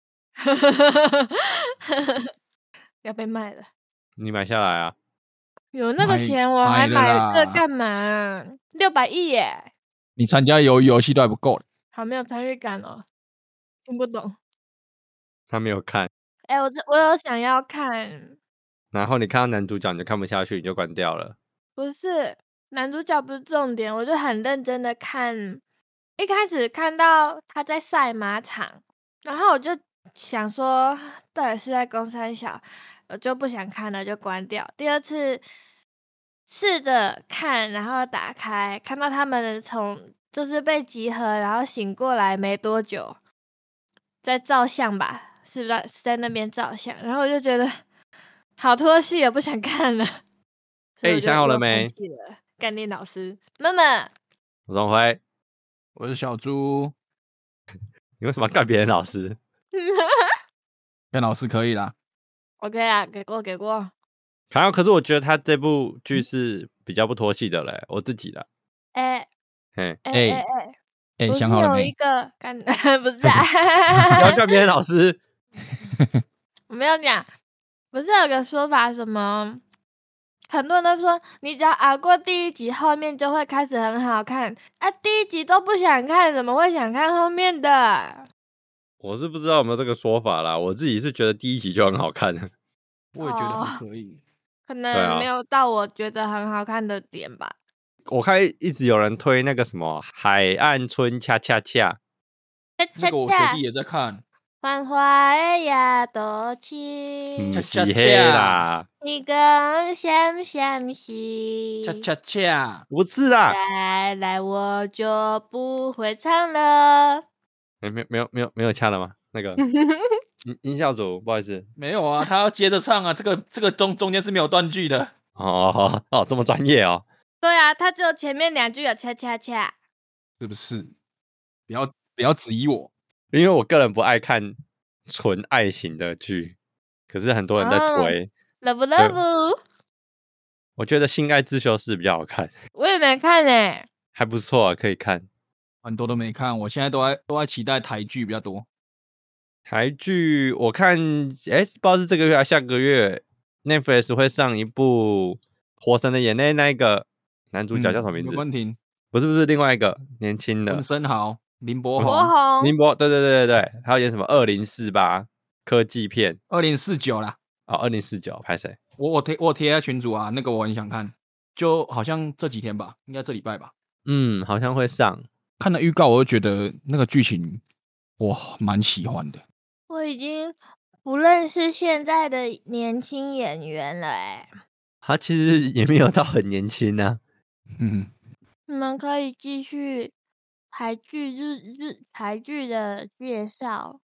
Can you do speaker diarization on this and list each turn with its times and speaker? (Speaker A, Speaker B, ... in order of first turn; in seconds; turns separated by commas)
Speaker A: 0.4-2.3, Speaker A: 3.0-3.7, Speaker B: 4.2-4.9, Speaker A: 5.7-9.7, Speaker C: 6.0-7.6, Speaker C: 10.2-11.6, Speaker A: 11.9-13.1, Speaker A: 13.9-14.4, Speaker B: 15.5-16.1, Speaker A: 16.5-18.4, Speaker B: 18.9-21.4, Speaker A: 21.8-25.6, Speaker A: 26.2-35.4, Speaker A: 36.5-43.2, Speaker A: 44.2-47.7, Speaker A: 48.6-50.1, Speaker A: 51.0-54.1, Speaker B: 51.0-51.9, Speaker B: 54.7-55.2, Speaker C: 56.0-56.9, Speaker B: 58.2-59.4, Speaker A: 59.7-60.4, Speaker C: 61.1-61.9, Speaker A: 62.6-63.9, Speaker B: 64.5-68.5, Speaker A: 69.0-69.3, Speaker A: 70.0-70.8, Speaker C: 70.1-70.5, Speaker C: 71.2-71.9, Speaker A: 71.3-74.4, Speaker B: 74.1-75.2, Speaker A: 76.7-77.3, Speaker A: 77.9-79.6, Speaker A: 80.5-88.3, Speaker B: 89.0-92.5, Speaker C: 93.1-94.2, Speaker A: 93.2-93.8, Speaker A: 94.7-97.5, Speaker B: 94.9-95.3, Speaker B: 98.1-102.0, Speaker A: 102.8-103.6, Speaker C: 103.0-104.2, Speaker A: 104.6-107.6, Speaker B: 107.4-108.9, Speaker C: 107.5-108.7, Speaker A: 109.0-112.1, Speaker C: 111.8-112.8, Speaker B: 112.9-113.6, Speaker A: 113.5-117.2, Speaker B: 117.8-119.6, Speaker A: 119.6-120.2, Speaker B: 120.4-121.7, Speaker C: 121.8-125.1, Speaker B: 125.4-127.0, Speaker A: 127.4-129.7, Speaker C: 130.4-130.9, Speaker C: 131.7-132.9, Speaker B: 133.3-134.6, Speaker B: 135.1-136.6, Speaker B: 137.1-138.3, Speaker A: 137.6-139.6, Speaker B: 140.8-142.5, Speaker A: 142.8-143.9, Speaker B: 144.2-145.3, Speaker C: 145.8-148.7, Speaker B: 149.7-158.4, Speaker C: 157.7-158.8, Speaker B: 159.1-160.8, Speaker C: 160.7-162.3, Speaker B: 162.0-166.4, Speaker A: 162.0-162.7, Speaker C: 166.5-167.4, Speaker B: 167.7-168.8, Speaker C: 169.0-173.7, Speaker B: 174.1-175.3, Speaker C: 175.6-177.6, Speaker C: 178.2-179.4, Speaker A: 179.9-184.5, Speaker B: 185.0-187.2, Speaker C: 187.8-188.1, Speaker A: 188.7-190.1, Speaker A: 190.7-194.0